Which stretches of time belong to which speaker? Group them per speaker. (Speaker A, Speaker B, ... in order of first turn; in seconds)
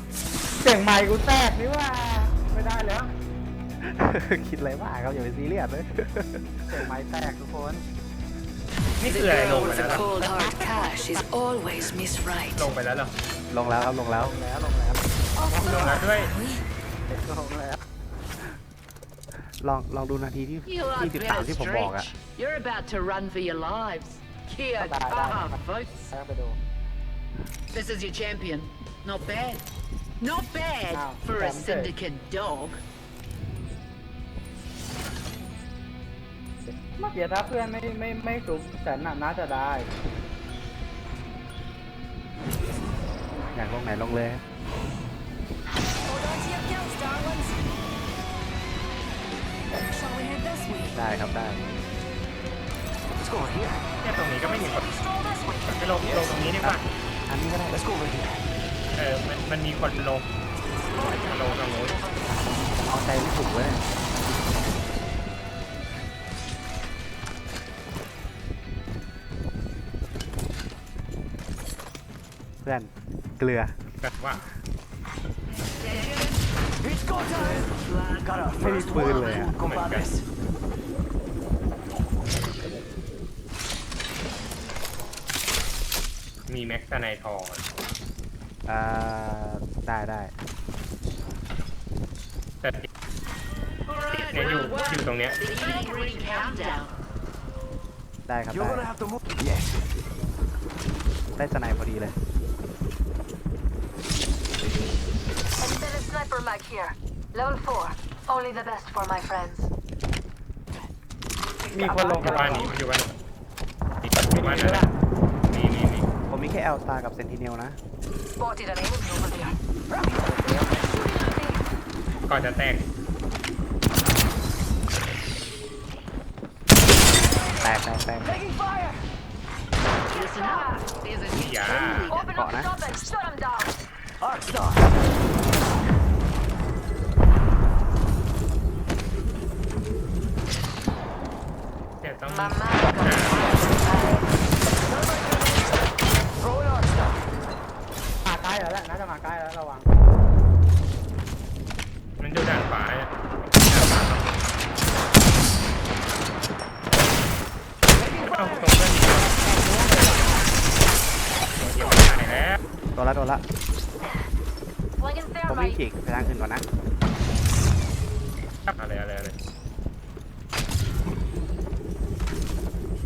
Speaker A: 0.6-3.1, 6.7-7.8, 9.9-11.2, 13.8-16.0, 17.1-17.8, 24.8-26.6, 30.9-31.9, 37.0-39.9, 111.7-112.7, 114.3-114.9, 148.2-149.9, 159.1-160.4
Speaker B: 3.8-6.7, 13.5-14.3, 19.6-22.1, 43.4-44.4, 50.9-51.7, 56.6-57.8, 62.8-63.9, 72.6-73.8, 78.6-79.5, 88.7-90.3, 98.3-98.9, 101.4-102.2, 116.3-117.8, 120.3-120.6, 127.6-128.3, 132.2-132.7, 162.9-163.4, 165.5-166.6
Speaker C: 9.0-10.1, 12.5-13.1, 15.7-16.3, 54.0-54.9, 55.7-56.9, 59.0-60.3, 61.3-62.0, 74.0-74.5, 79.6-80.1, 86.5-87.6, 92.6-92.9, 94.2-95.4, 112.2-113.1, 114.0-114.9, 115.4-116.1, 122.3-122.9, 131.3-132.1, 142.0-143.4, 152.2-154.4, 158.1-160.3, 161.6-162.6, 168.7-169.3
Speaker D: 9.1-12.6, 15.4-16.5, 46.0-47.6, 49.7-51.0, 54.4-56.0, 60.9-62.5, 95.4-96.8, 105.6-109.7, 111.7-112.7, 118.3-119.6, 120.7-121.7, 127.1-127.8, 130.1-130.9, 132.1-133.8, 142.3-144.3, 165.0-165.8
Speaker E: 11.6-12.3, 20.6-26.1, 27.7-29.6, 30.2-32.8, 75.8-76.3, 77.3-78.3, 93.9-96.9, 130.1-132.2
Speaker F: 53.2-53.9, 56.0-56.5, 57.7-58.4, 76.8-80.2, 98.5-99.8, 119.9-120.5, 128.2-129.1, 134.2-134.9, 144.9-147.2, 158.0-158.9